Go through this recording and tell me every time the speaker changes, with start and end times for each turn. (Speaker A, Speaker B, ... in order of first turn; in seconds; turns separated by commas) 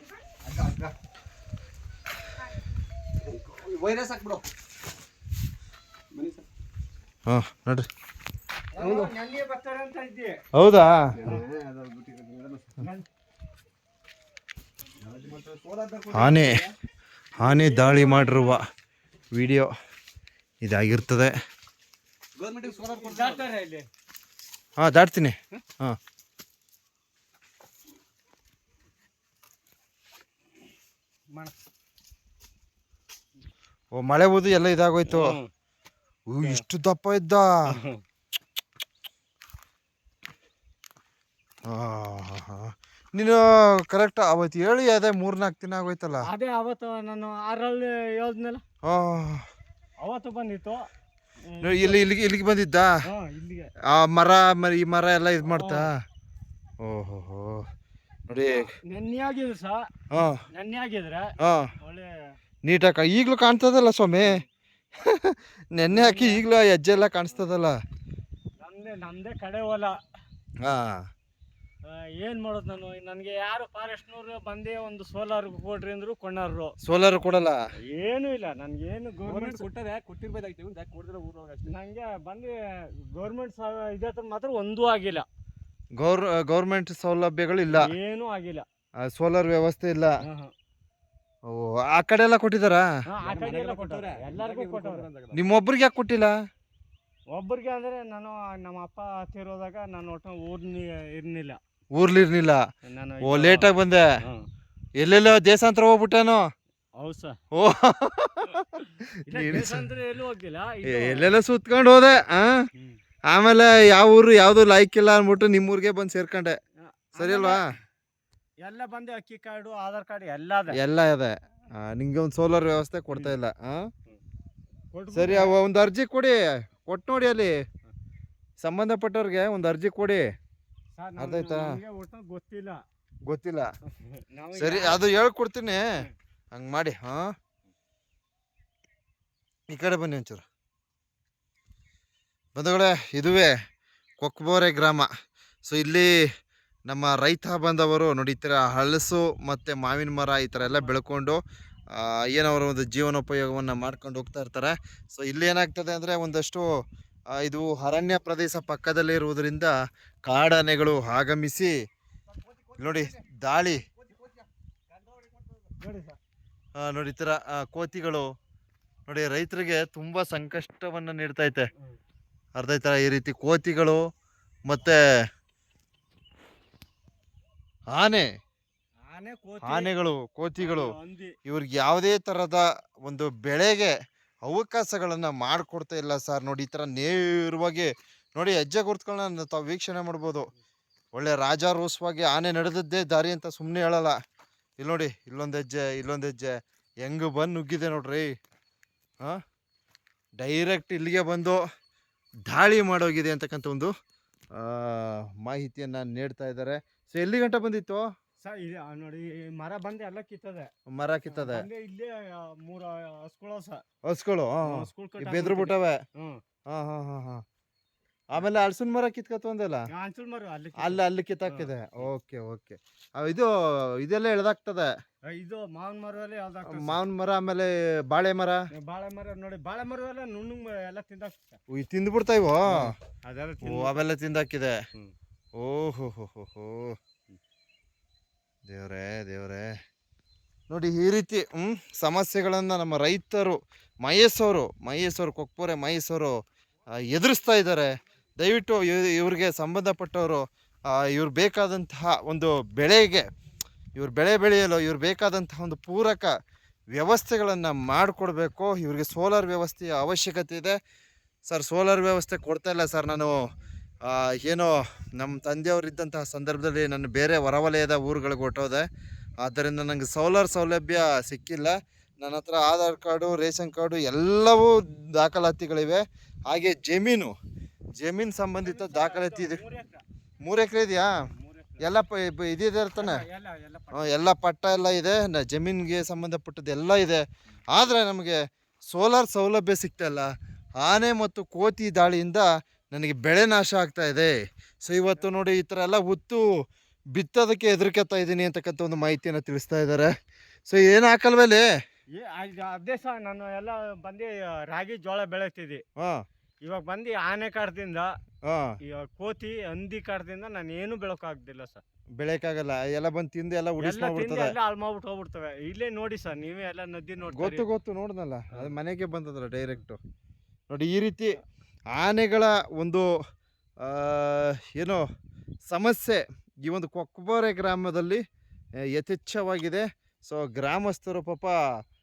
Speaker A: 0.4-0.9, Speaker A: 3.2-4.5, Speaker A: 6.1-6.5, Speaker B: 7.3-7.9, Speaker C: 8.7-10.4, Speaker A: 8.8-9.1, Speaker B: 10.5-11.2, Speaker A: 11.2-12.8, Speaker C: 12.8-13.1, Speaker A: 15.0-16.7, Speaker B: 16.1-16.6, Speaker B: 17.4-18.6, Speaker C: 17.4-18.6, Speaker B: 19.3-19.7, Speaker B: 20.6-21.3, Speaker A: 22.4-23.5, Speaker C: 22.7-23.9, Speaker B: 24.8-26.0, Speaker B: 33.9-35.4, Speaker C: 35.1-35.5, Speaker B: 36.3-37.8, Speaker C: 37.7-38.0, Speaker B: 41.7-46.3, Speaker C: 46.2-48.6, Speaker B: 48.8-49.5, Speaker C: 50.0-50.9, Speaker C: 51.5-52.0, Speaker B: 51.6-52.9, Speaker C: 53.1-53.7, Speaker B: 53.9-56.0, Speaker C: 55.5-55.9, Speaker B: 56.8-57.7, Speaker B: 58.3-58.7, Speaker C: 58.7-59.8, Speaker B: 60.1-60.4, Speaker C: 60.5-62.4, Speaker B: 61.4-61.7, Speaker B: 62.6-64.4, Speaker B: 65.0-67.8, Speaker C: 65.9-66.4, Speaker C: 68.6-70.0, Speaker B: 70.6-71.1, Speaker C: 71.9-76.7, Speaker B: 76.8-77.6, Speaker C: 77.9-79.7, Speaker A: 79.2-81.7, Speaker C: 81.7-82.6, Speaker C: 83.1-85.3, Speaker B: 86.0-87.9, Speaker C: 87.7-88.7, Speaker B: 89.0-90.2, Speaker C: 90.2-90.5, Speaker B: 91.5-92.9, Speaker C: 93.1-95.1, Speaker A: 93.2-95.4, Speaker B: 95.3-96.4, Speaker C: 97.3-101.6, Speaker B: 101.9-102.6, Speaker C: 102.8-104.5, Speaker B: 103.2-104.1, Speaker B: 105.0-106.5, Speaker C: 107.0-107.4, Speaker B: 107.5-109.9, Speaker C: 109.2-111.3, Speaker B: 110.8-112.7, Speaker B: 113.3-116.6, Speaker C: 116.8-117.7, Speaker B: 117.2-117.7, Speaker C: 118.6-120.8, Speaker B: 120.7-123.9, Speaker C: 124.9-125.6, Speaker B: 125.1-127.6, Speaker B: 128.6-130.3, Speaker C: 131.0-132.8, Speaker B: 131.2-131.8, Speaker B: 133.3-133.7, Speaker C: 133.9-135.0, Speaker B: 134.6-135.9, Speaker B: 136.5-137.3, Speaker B: 139.7-140.4, Speaker B: 142.6-143.6, Speaker B: 144.2-145.1, Speaker B: 145.7-146.2, Speaker B: 146.9-151.4, Speaker C: 150.6-151.0, Speaker B: 151.9-156.7, Speaker B: 157.3-159.8, Speaker B: 160.3-161.8, Speaker B: 162.8-163.8, Speaker C: 165.8-166.2, Speaker B: 166.8-168.3, Speaker B: 169.1-171.7, Speaker B: 172.6-174.1, Speaker B: 174.7-175.0, Speaker B: 177.9-178.3, Speaker C: 179.1-179.9, Speaker B: 179.6-180.9, Speaker C: 180.6-181.3, Speaker B: 181.5-190.5, Speaker B: 191.2-194.2, Speaker B: 194.8-198.3, Speaker B: 200.4-201.6, Speaker B: 202.5-203.9, Speaker B: 204.5-208.1, Speaker C: 208.4-210.7, Speaker B: 210.9-211.7, Speaker C: 211.3-213.8, Speaker B: 214.1-216.0, Speaker C: 214.7-216.4, Speaker B: 216.7-217.4, Speaker B: 218.3-219.8, Speaker C: 219.9-222.1, Speaker B: 220.8-224.9, Speaker C: 225.3-227.0, Speaker B: 226.7-228.7, Speaker C: 228.7-231.6, Speaker B: 231.7-232.9, Speaker C: 232.7-234.0, Speaker B: 233.6-234.8, Speaker B: 235.6-237.0, Speaker B: 238.7-239.7, Speaker B: 240.7-253.3, Speaker B: 253.9-256.4, Speaker B: 256.9-260.8, Speaker B: 261.5-263.4, Speaker B: 264.0-268.9, Speaker B: 269.4-277.3, Speaker B: 278.0-279.6, Speaker C: 278.6-280.0, Speaker B: 280.4-281.1, Speaker C: 281.2-282.0, Speaker B: 281.8-283.2, Speaker C: 283.0-284.2, Speaker B: 283.9-296.5, Speaker B: 297.1-300.1, Speaker B: 300.7-301.7, Speaker C: 302.2-305.8, Speaker B: 306.0-306.2, Speaker C: 306.6-308.1, Speaker B: 308.4-308.7, Speaker C: 308.8-311.8, Speaker B: 312.2-314.5, Speaker C: 313.8-317.7, Speaker B: 317.3-320.0, Speaker B: 320.7-321.3, Speaker B: 321.9-323.1, Speaker B: 323.8-325.1, Speaker B: 325.7-328.2, Speaker B: 328.8-331.6